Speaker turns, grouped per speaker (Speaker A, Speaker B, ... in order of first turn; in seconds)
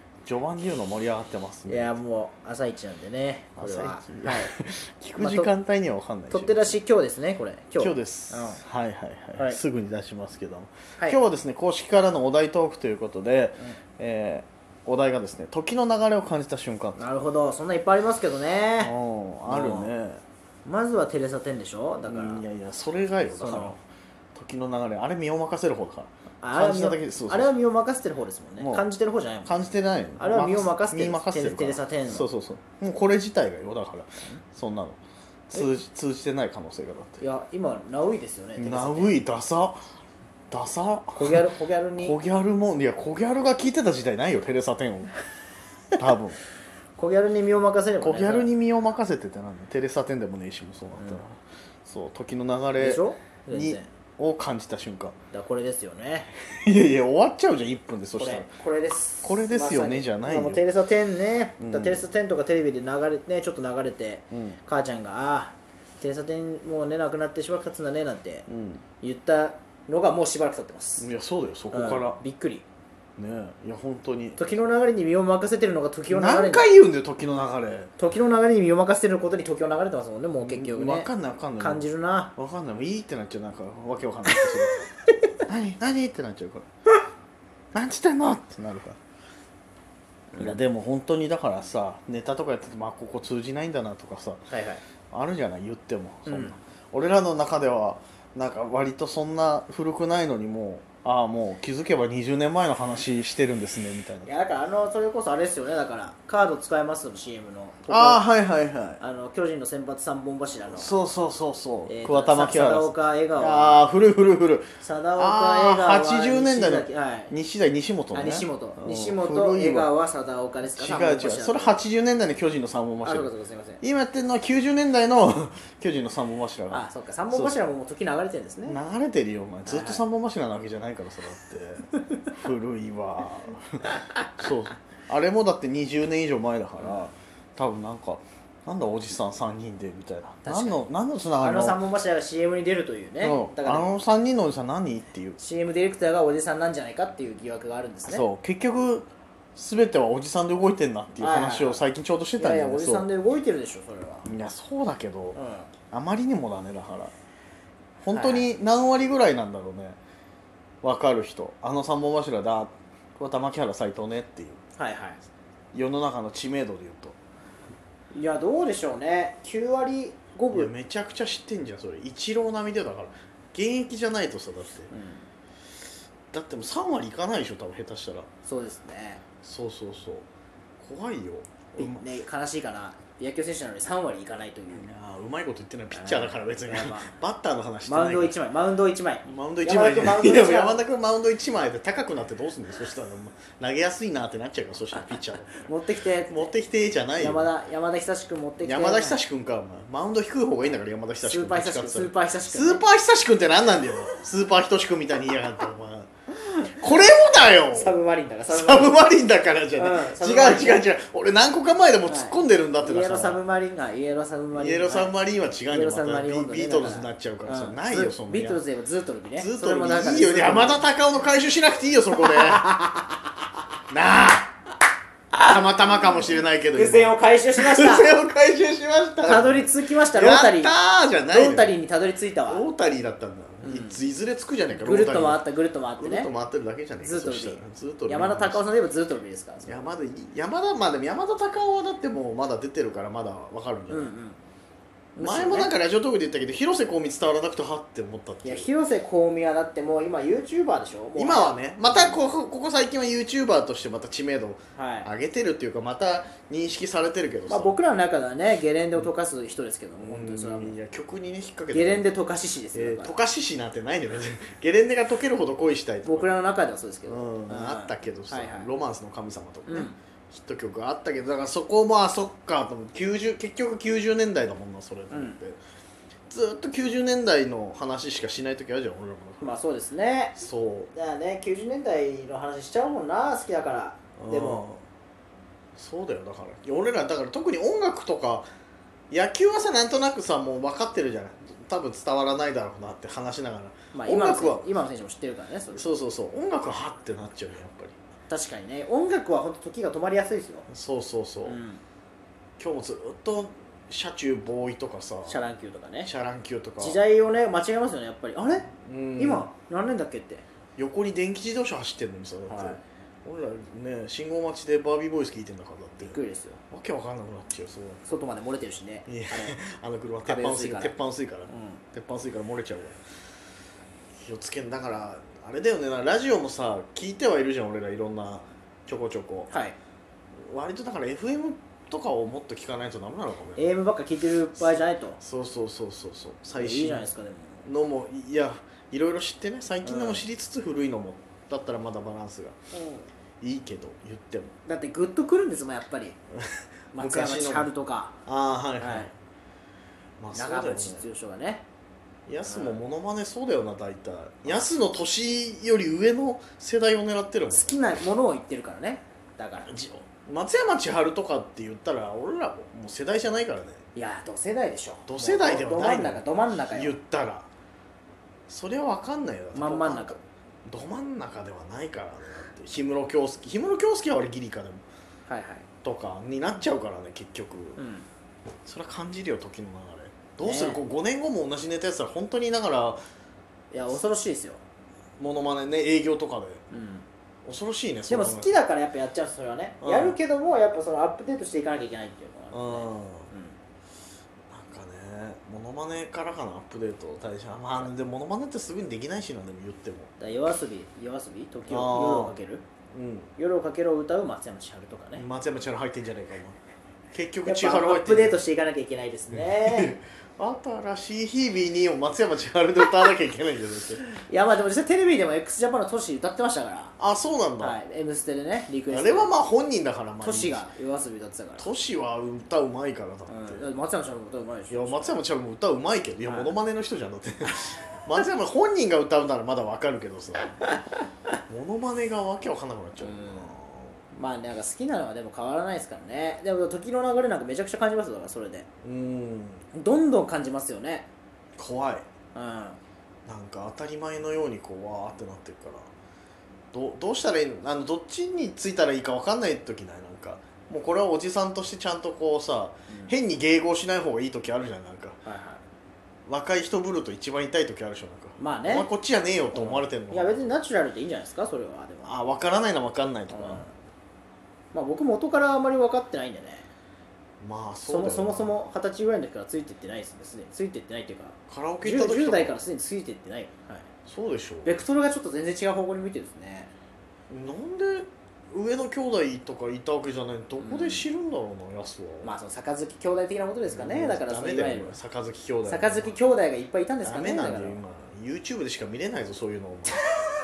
Speaker A: 0.3-1.9, 3.6-6.8, 7.8-17.0, 18.8-20.2, 22.1-23.8, 24.4-27.5, 28.6-28.9, 29.4-37.2, 38.6-39.8, 40.5-41.4, 42.0-45.1, 46.0-46.4, 48.0-55.2, 56.5-58.5, 59.2-60.6, 61.6-62.0, 64.3-64.6, 68.5-68.8, 71.0-72.2, 73.2-74.4, 76.1-77.9, 80.4-84.9, 85.5-86.7, 87.7-89.0, 90.4-94.5, 95.1-104.3, 107.9-109.0, 110.7-119.9, 120.7-127.6, 128.7-133.8, 134.4-141.8, 143.2-145.4, 148.1-153.1, 154.2-155.4, 155.9-157.1, 158.0-160.0, 160.8-164.6, 165.7-167.2, 170.5-174.9, 176.3-178.3, 179.4-180.3, 180.8-182.1, 184.7-188.4, 189.2-195.7, 196.3-197.5, 198.6-208.0, 208.5-213.4, 214.5-218.6, 219.4-222.7, 223.9-224.5, 225.3-231.7, 232.5-235.4, 236.0-238.6, 239.7-244.1, 245.2-248.7, 251.2-257.8, 260.0-262.1, 262.7-266.3, 267.1-275.6, 276.3-279.6, 280.4-280.9, 284.2-284.8, 285.8-288.5, 289.1-294.7, 295.7-298.0, 300.7-301.6, 302.6-305.4, 306.0-307.0, 308.8-309.5, 310.8-316.2, 316.7-318.0, 319.1-323.0, 324.2-329.5, 330.5-333.7, 334.6-337.1, 337.6-342.6, 343.4-344.5, 346.9-347.7, 348.3-349.1, 350.2-351.1, 352.3-357.8, 359.7-363.8, 365.1-367.5, 368.5-374.8, 375.8-377.8, 378.6-383.0, 385.2-386.6, 387.4-388.5, 389.8-390.2, 392.5-393.3, 394.5-400.1, 401.7-402.4, 402.9-403.3, 405.2-406.6, 407.1-408.4, 409.3-414.1, 417.0-417.8, 418.9-420.7, 421.6-423.7, 424.7-430.6, 431.5-434.0, 438.8-439.6, 441.6-442.1, 443.3-445.9, 446.7-455.2, 456.3-460.4, 462.1-463.7, 467.4-468.5, 471.5-472.5, 474.1-474.8, 477.3-482.4, 483.7-486.2, 487.0-490.1
Speaker B: 1.7-4.5, 5.2-5.5, 6.3-8.6, 17.0-18.9, 19.5-19.9, 20.6-22.4, 23.4-23.8, 26.4-29.5, 30.2-32.3, 37.2-39.2, 41.2-42.2, 47.0-48.5, 51.0-51.2, 52.8-53.9, 55.3-56.3, 58.2-68.5, 69.0-71.1, 71.7-72.7, 74.4-76.7, 78.0-82.3, 90.3-90.6, 94.5-94.8, 96.3-96.6, 104.2-108.2, 109.0-110.9, 111.9-113.8, 114.8-117.3, 118.1-121.8, 123.0-123.8, 126.7-128.8, 129.7-130.0, 136.8-137.1, 140.4-140.8, 141.4-143.9, 145.4-148.3, 151.2-154.3, 155.3-155.7, 158.1-158.5, 164.8-165.2, 168.1-170.7, 174.9-175.3, 178.5-179.2, 181.8-184.9, 185.9-187.1, 187.8-190.8, 195.6-196.5, 197.2-199.2, 201.2-202.8, 207.7-209.0, 209.8-210.8, 212.1-215.2, 215.7-220.8, 222.2-223.3, 226.7-228.1, 229.2-230.7, 231.3-232.6, 233.6-234.0, 234.7-236.3, 237.0-239.8, 243.9-244.4, 245.2-245.7, 248.4-252.2, 254.8-255.1, 257.5-260.8, 261.7-263.2, 266.0-268.7, 269.7-270.0, 275.1-275.4, 279.4-280.4, 280.9-284.6, 293.9-295.9, 298.3-300.7, 301.4-301.8, 305.3-306.1, 306.8-310.4, 312.5-312.8, 316.0-316.6, 318.1-319.6, 320.2-320.9, 321.5-321.8, 329.5-329.8, 333.6-335.2, 336.5-337.7, 339.9-340.3, 342.7-343.1, 344.7-346.2, 346.9-348.2, 348.8-349.1, 350.3-351.6, 352.4-352.8, 357.5-359.7, 363.9-367.0, 369.5-370.2, 375.3-375.7, 377.8-378.1, 380.4-380.8, 383.7-384.6, 386.7-387.1, 388.1-393.6, 400.2-402.6, 403.4-405.2, 407.4-410.0, 414.2-416.9, 417.6-419.3, 420.2-421.7, 423.3-425.2, 426.3-426.5, 433.0-433.6, 434.1-438.7, 439.7-441.1, 442.4-442.8, 452.9-453.1, 455.2-455.6, 458.4-458.9, 459.5-462.1, 463.3-463.7, 464.7-466.7, 467.9-473.9, 474.6-476.7, 480.6-481.1, 482.2-485.0, 485.7-487.8